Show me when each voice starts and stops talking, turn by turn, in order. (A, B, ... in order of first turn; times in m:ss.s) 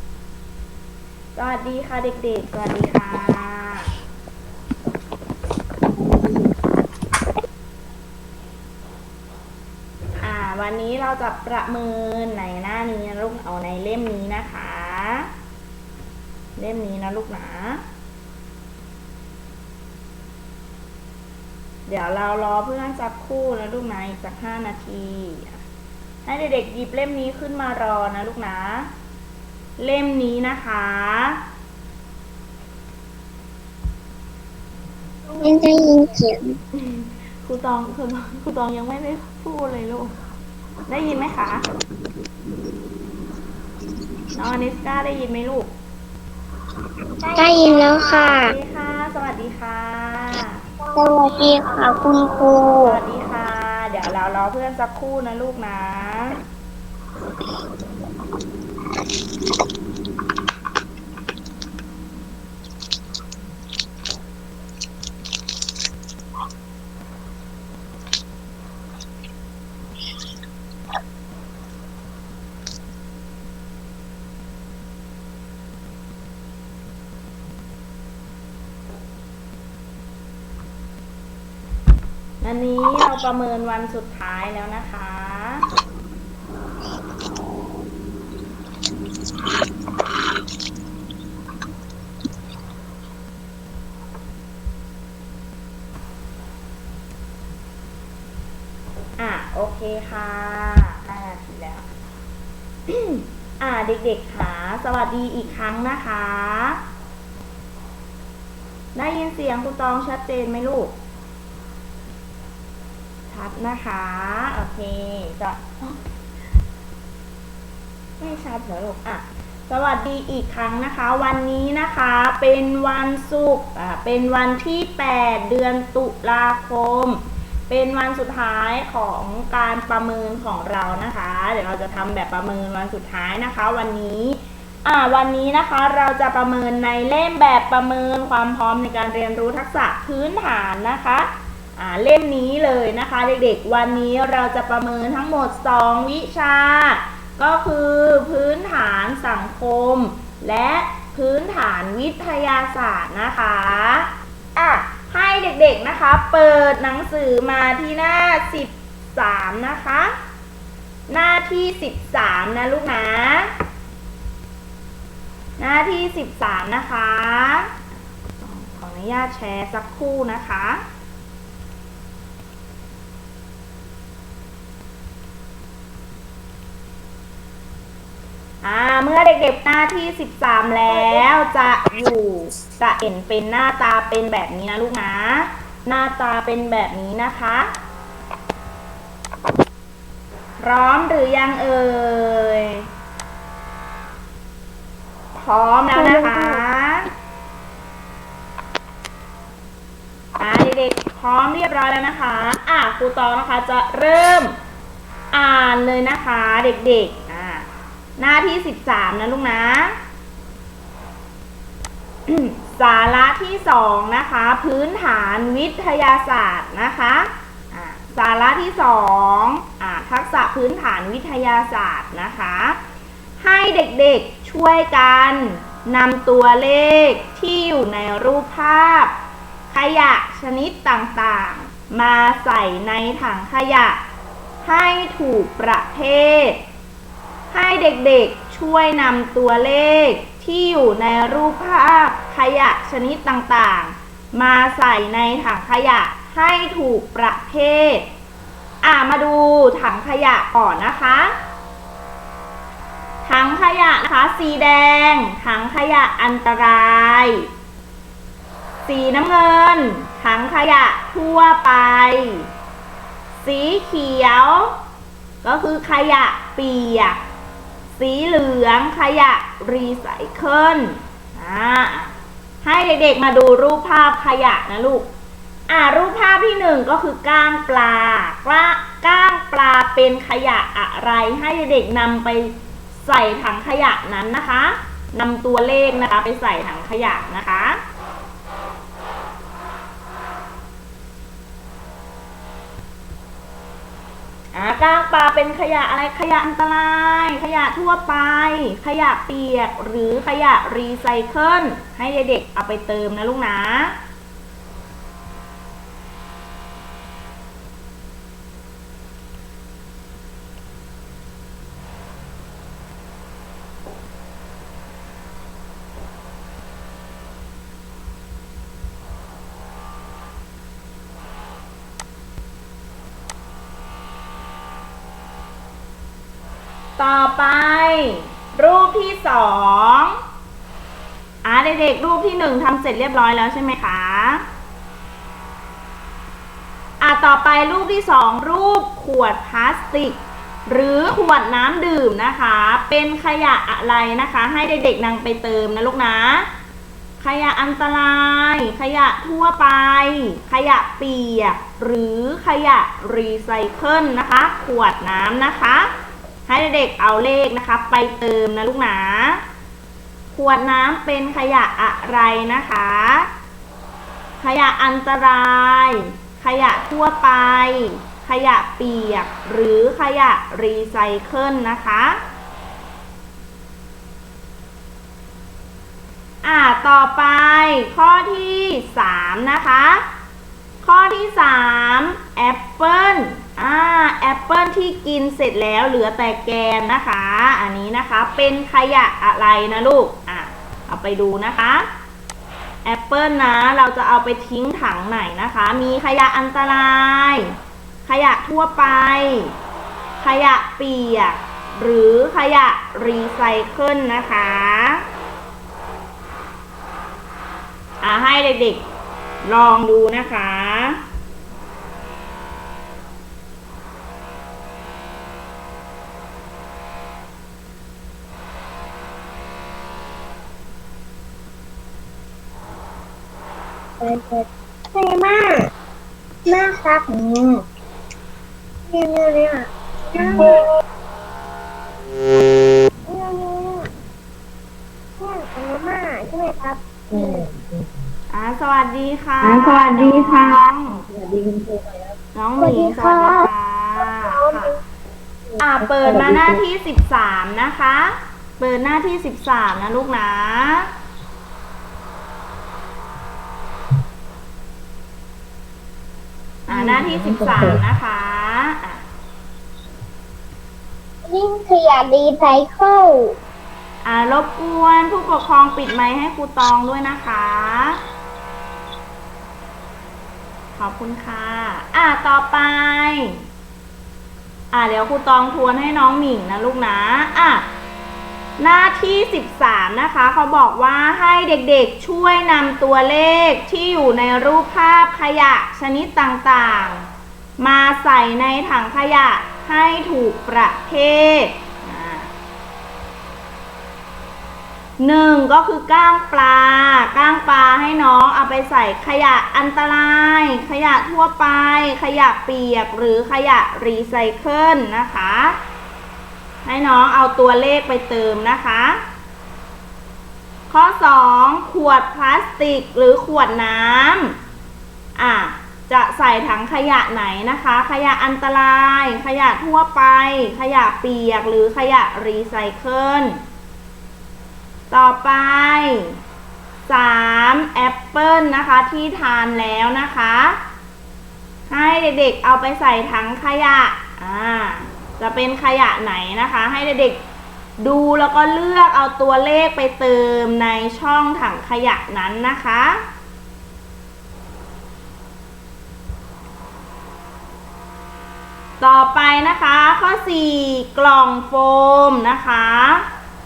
0:01.4-0:03.9 A
0:10.2-0:15.3 A
0:16.6-0:17.8 A
0:21.9-0:25.6 A
0:26.2-0:28.9 A
0:29.8-0:31.4 A
0:35.3-0:36.6 B
0:36.8-0:40.2 A
0:40.9-0:41.6 A
0:44.4-0:45.7 A
0:47.2-0:48.5 B
0:48.0-0:50.6 A
0:50.9-0:53.0 B
0:52.8-0:56.4 A
1:22.4-1:25.7 A
1:39.2-1:41.9 A
1:42.9-1:46.8 A
1:49.0-1:50.9 A
1:53.3-1:56.0 A
1:58.2-2:40.1 A
2:41.1-2:43.5 A
2:45.6-2:47.8 A
2:48.4-2:50.8 A
2:58.6-3:07.7 A
3:10.6-3:12.9 A
3:15.4-3:17.1 A
3:16.2-3:16.6 B
3:20.4-3:24.6 A
3:25.3-3:30.0 A
3:32.3-3:42.8 A
3:43.4-3:49.1 A
3:49.7-3:54.0 A
3:54.6-3:56.6 A
3:57.5-4:08.1 A
4:08.8-4:11.4 A
4:13.2-4:17.5 A
4:18.8-4:22.5 A
4:23.3-4:24.8 A
4:25.4-4:27.2 A
4:28.0-4:35.1 A
4:35.7-4:47.8 A
4:54.5-5:04.0 A
5:27.0-5:30.2 A
5:31.4-5:34.4 A
5:37.0-5:46.5 A
5:47.2-5:55.9 A
5:56.5-5:59.4 A
6:00.3-6:03.3 A
6:04.4-6:12.2 A
6:16.4-6:20.0 A
6:20.8-6:31.9 A
6:32.8-6:39.5 A
6:40.2-6:45.0 A
6:48.0-6:48.8 A
6:49.4-6:51.0 A
7:04.0-7:05.7 B
7:06.5-7:07.6 B
7:08.9-7:10.7 B
7:13.1-7:13.9 B
7:15.2-7:17.4 B
7:17.1-7:17.4 C
7:18.3-7:21.0 A
7:19.4-7:21.9 C
7:22.4-7:24.8 A
7:22.6-7:23.5 B
7:25.6-7:30.9 A
7:26.1-7:26.6 C
7:36.7-7:39.0 A
7:36.7-7:37.6 C
7:41.2-7:43.4 B
7:44.0-7:48.0 A
7:50.8-7:53.4 A
7:54.7-7:57.7 A
7:58.6-8:07.1 A
8:07.6-8:12.3 A
8:15.0-8:25.6 A
8:26.6-8:29.0 A
8:30.7-8:34.4 A
8:35.2-8:43.4 A
8:44.9-8:46.2 A
8:46.9-8:50.6 A
8:51.7-8:57.2 A
8:57.8-9:03.0 A
9:08.8-9:13.1 A